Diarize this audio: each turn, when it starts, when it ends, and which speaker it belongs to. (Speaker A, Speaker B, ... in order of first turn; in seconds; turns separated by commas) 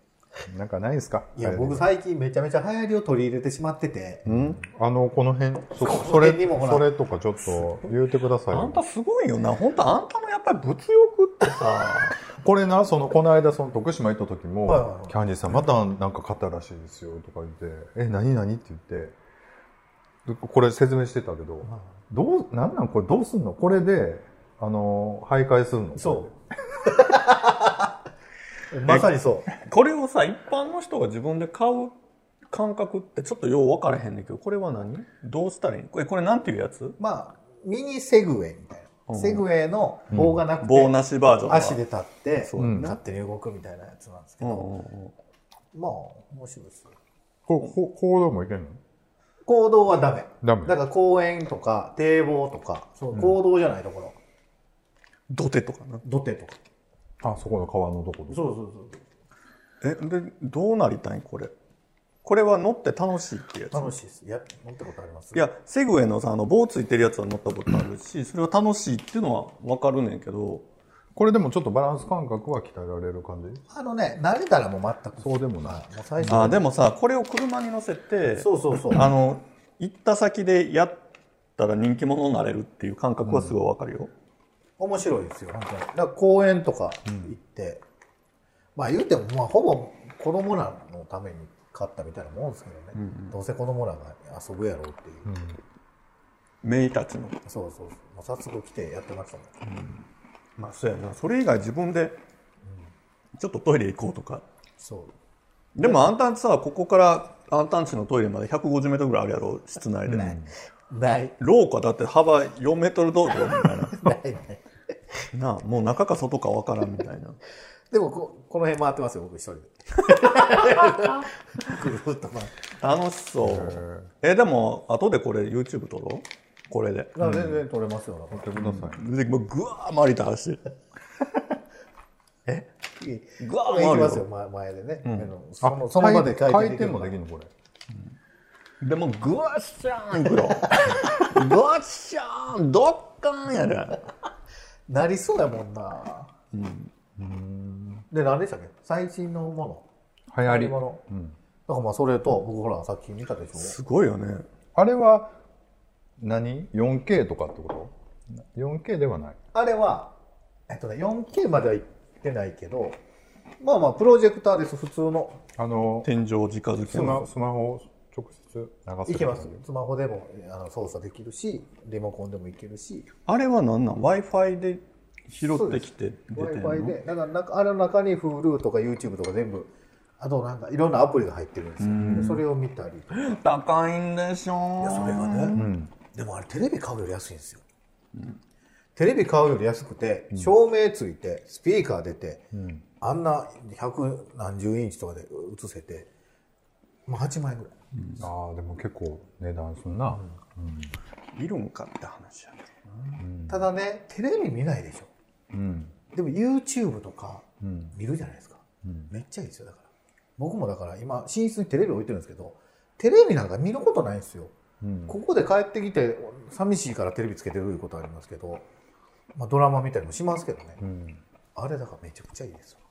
Speaker A: 0.5-1.9, Speaker B: 1.4-4.2, Speaker C: 4.2-4.6, Speaker A: 4.2-8.8, Speaker B: 5.8-6.9, Speaker C: 8.5-12.2, Speaker A: 12.3-19.2, Speaker B: 14.7-15.1, Speaker A: 20.2-26.3, Speaker B: 25.9-26.3, Speaker B: 26.9-27.9, Speaker B: 28.7-29.5, Speaker C: 28.9-31.9, Speaker C: 32.5-37.0, Speaker B: 37.0-44.7, Speaker C: 39.1-39.4, Speaker A: 40.1-40.4, Speaker C: 40.6-41.8, Speaker C: 42.4-43.0, Speaker A: 42.6-43.0, Speaker C: 44.4-45.1, Speaker B: 45.7-46.9, Speaker A: 47.5-48.8, Speaker B: 49.5-54.1, Speaker A: 50.4-50.8, Speaker C: 55.3-56.0, Speaker B: 56.0-56.6, Speaker A: 57.2-58.4, Speaker B: 58.3-59.0, Speaker C: 59.8-61.5, Speaker C: 62.2-63.9, Speaker B: 63.7-65.4, Speaker C: 65.3-70.7, Speaker A: 71.1-73.6, Speaker B: 73.7-76.7, Speaker A: 75.2-76.5, Speaker C: 76.3-81.0, Speaker B: 78.3-79.1, Speaker C: 81.6-84.1, Speaker A: 83.2-83.6, Speaker B: 84.8-87.8, Speaker B: 88.8-95.4, Speaker C: 92.9-93.3, Speaker A: 95.2-95.6, Speaker C: 96.6-97.4, Speaker B: 97.4-99.5, Speaker C: 99.6-100.0, Speaker C: 100.6-102.2, Speaker C: 103.4-104.4, Speaker B: 104.8-105.1, Speaker C: 105.7-110.4, Speaker B: 105.8-106.1, Speaker A: 110.1-110.5, Speaker B: 110.9-111.3, Speaker C: 111.4-114.2, Speaker B: 113.9-114.6, Speaker C: 115.3-117.4, Speaker B: 117.9-122.5, Speaker C: 122.7-127.2, Speaker A: 123.4-124.1, Speaker B: 127.1-128.6, Speaker A: 127.2-127.5, Speaker A: 128.3-129.0, Speaker C: 128.6-130.6, Speaker B: 132.5-137.2, Speaker C: 133.4-134.2, Speaker C: 135.0-135.3, Speaker A: 135.6-137.5, Speaker C: 138.8-144.0, Speaker B: 144.9-146.3, Speaker C: 146.5-146.9, Speaker A: 147.2-148.1, Speaker B: 148.1-149.8, Speaker A: 150.3-151.3, Speaker B: 150.4-151.0, Speaker B: 151.7-153.8, Speaker C: 153.6-154.5, Speaker A: 154.7-155.3, Speaker A: 156.2-159.4, Speaker B: 159.5-160.1, Speaker B: 160.7-163.0, Speaker B: 163.6-165.4, Speaker A: 165.6-166.1, Speaker C: 166.0-167.3, Speaker A: 166.9-169.6, Speaker B: 169.1-173.1, Speaker C: 173.2-177.0, Speaker B: 175.4-183.4, Speaker C: 181.8-182.4, Speaker C: 183.1-185.7, Speaker B: 184.8-187.6, Speaker A: 185.5-185.9, Speaker B: 188.9-192.4, Speaker A: 192.5-192.8, Speaker B: 193.0-196.1, Speaker B: 197.1-197.7, Speaker C: 197.9-198.2, Speaker A: 198.2-200.9, Speaker C: 201.3-203.2, Speaker A: 203.2-203.6, Speaker B: 203.5-205.1, Speaker A: 205.5-205.9, Speaker B: 206.1-209.9, Speaker A: 207.6-207.9, Speaker A: 208.8-209.1, Speaker B: 210.4-214.5, Speaker A: 214.8-215.2, Speaker B: 215.1-218.7, Speaker B: 219.3-220.8, Speaker A: 220.8-221.2, Speaker B: 221.5-222.8